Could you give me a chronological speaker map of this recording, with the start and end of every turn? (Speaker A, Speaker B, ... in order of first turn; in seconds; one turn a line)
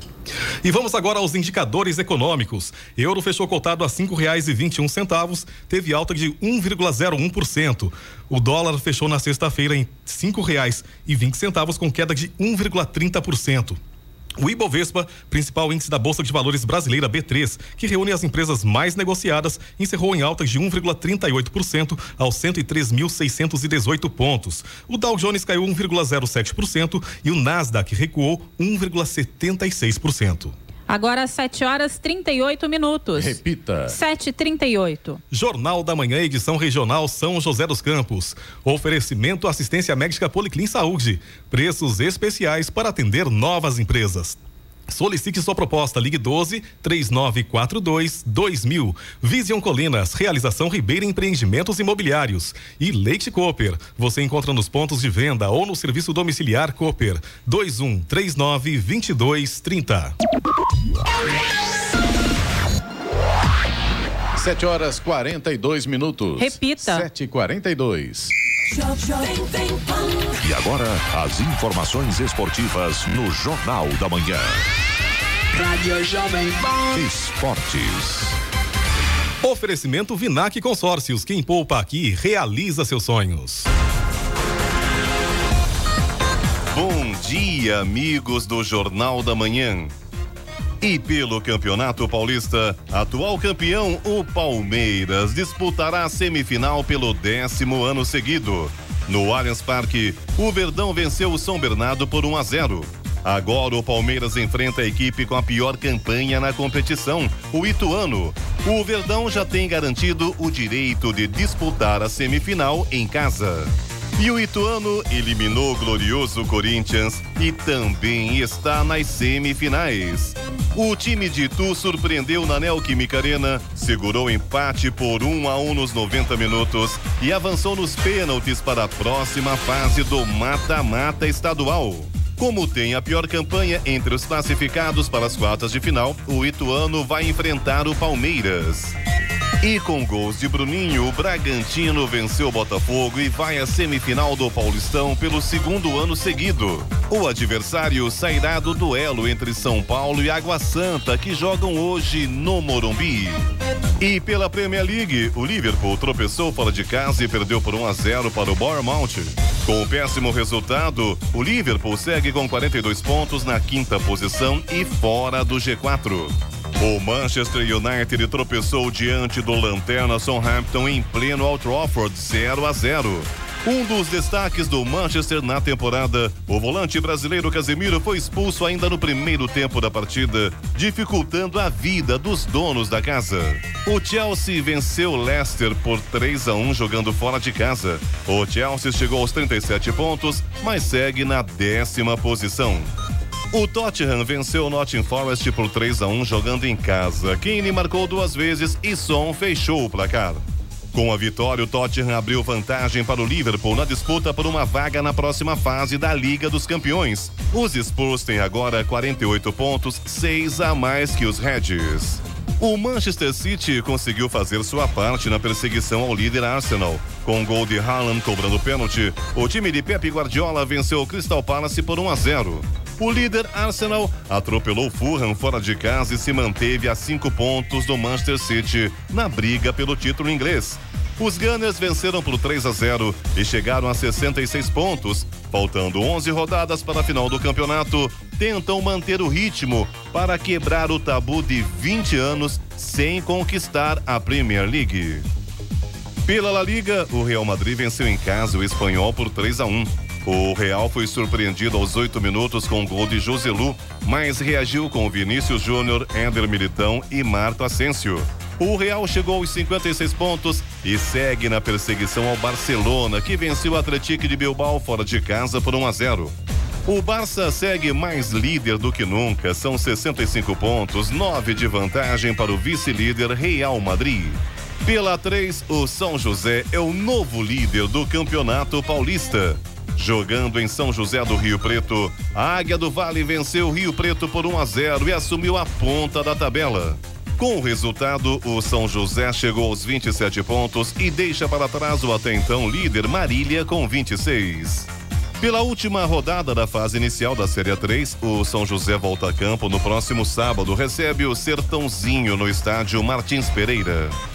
Speaker A: 0.6-13.8
Speaker A: 14.4-30.5
Speaker B: 30.9-35.2
Speaker C: 33.1-34.0
Speaker A: 35.3-44.4
Speaker A: 44.9-60.1
Speaker C: 64.3-68.3
Speaker B: 66.4-67.1
Speaker D: 68.7-70.3
Speaker E: 70.4-74.6
Speaker D: 75.5-77.0
Speaker E: 76.9-78.4
Speaker A: 79.4-83.7
Speaker F: 86.7-89.9
Speaker F: 90.8-139.0
Speaker F: 139.6-153.4
Speaker F: 154.0-192.9
Speaker F: 193.5-200.4
Speaker F: 200.9-245.3
Speaker F: 246.3-266.3
Speaker F: 266.9-304.2